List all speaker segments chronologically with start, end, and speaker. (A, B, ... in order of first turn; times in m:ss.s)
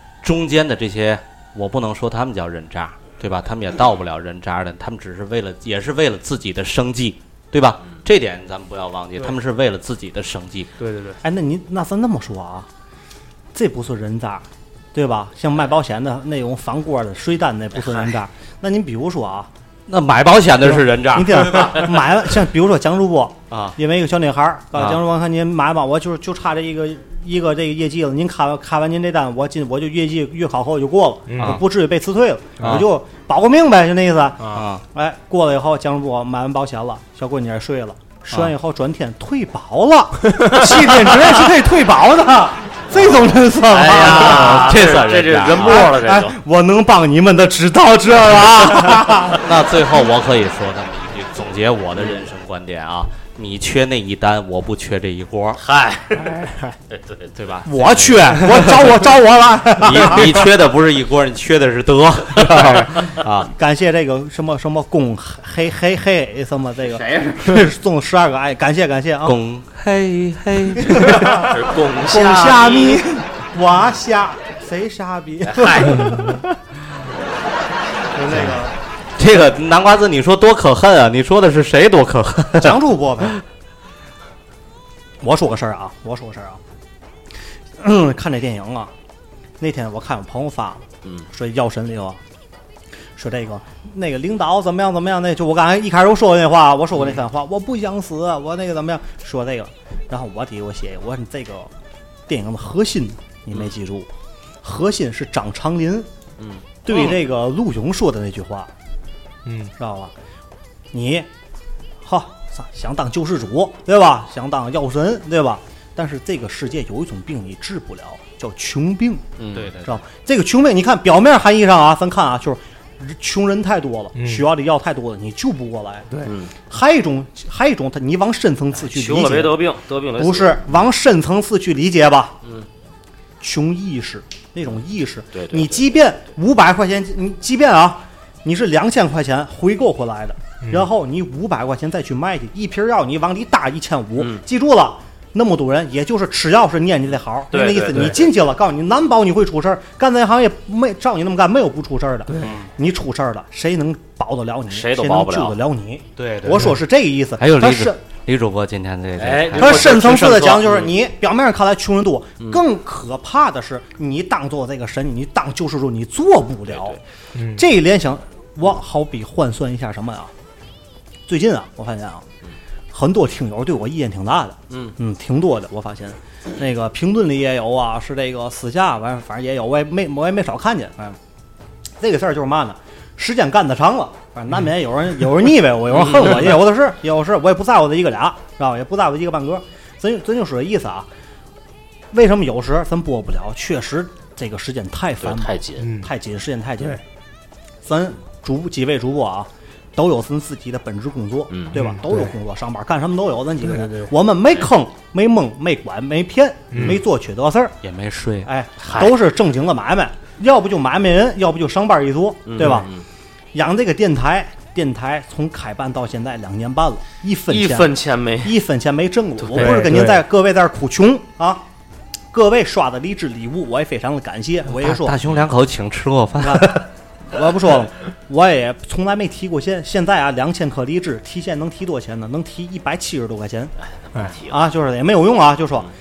0:00.2-0:10.7 A
0:10.8-0:11.2 B
0:11.2-0:12.7 C
0:13.5-0:19.5 C
0:17.8-0:18.1 D
0:19.9-0:22.0 A
0:21.1-0:44.8 C
0:23.5-0:23.8 A
0:24.7-0:25.0 A
0:31.3-0:31.6 B
0:32.6-0:32.9 A
0:34.5-0:34.8 A
0:42.9-0:43.3 A
0:43.7-0:46.4 D
0:43.9-0:45.9 A
0:45.5-0:49.4 C
0:49.3-0:55.6 A
0:55.6-0:56.4 D
0:56.2-0:56.8 B
0:56.9-0:57.3 D
0:57.3-0:58.9 A
0:57.6-1:00.4 C
0:59.8-1:03.5 A
1:03.5-1:09.4 C
1:06.9-1:07.5 D
1:09.2-1:11.2 A
1:10.8-1:11.5 C
1:11.1-1:13.0 D
1:12.0-1:16.4 C
1:15.4-1:16.2 D
1:18.1-1:18.8 C
1:19.2-1:23.3 A
1:22.6-1:23.4 C
1:25.2-1:26.6 C
1:27.8-1:28.9 C
1:29.6-1:32.2 C
1:33.2-1:41.7 C
1:42.3-1:44.1 C
1:44.6-1:46.1 C
1:46.4-1:46.6 D
1:46.8-1:48.7 C
1:49.4-1:49.7 B
1:49.8-1:50.1 C
1:50.9-1:51.3 C
1:52.0-1:59.3 C
1:59.4-1:59.7 D
1:59.5-2:00.0 A
1:59.8-2:06.1 C
2:04.2-2:04.5 B
2:06.2-2:06.5 D
2:06.6-2:09.6 C
2:08.8-2:10.6 D
2:10.2-2:12.4 C
2:13.4-2:38.0 C
2:15.3-2:15.9 D
2:24.2-2:24.4 D
2:27.5-2:28.3 D
2:32.4-2:32.7 A
2:34.7-2:35.6 D
2:36.2-2:36.8 A
2:37.4-2:40.2 A
2:39.2-2:40.9 D
2:39.6-2:47.0 C
2:46.7-2:47.0 D
2:47.3-2:47.6 B
2:47.5-2:50.3 C
2:51.3-2:52.2 C
2:52.9-3:01.2 C
2:54.7-2:55.0 D
3:02.0-3:11.1 C
3:05.9-3:06.5 D
3:12.1-3:17.0 C
3:15.2-3:15.9 D
3:15.8-3:16.1 B
3:17.8-3:27.8 C
3:21.7-3:22.3 B
3:23.6-3:24.1 B
3:26.7-3:27.0 B
3:27.8-3:28.5 A
3:28.4-3:32.9 C
3:28.8-3:29.1 D
3:32.4-3:33.0 D
3:33.5-3:41.6 C
3:37.5-3:38.5 D
3:39.4-3:39.7 D
3:39.6-3:40.2 B
3:42.3-3:45.2 C
3:44.7-3:46.9 A
3:46.4-3:53.7 C
3:53.8-3:54.6 D
3:54.5-3:55.9 C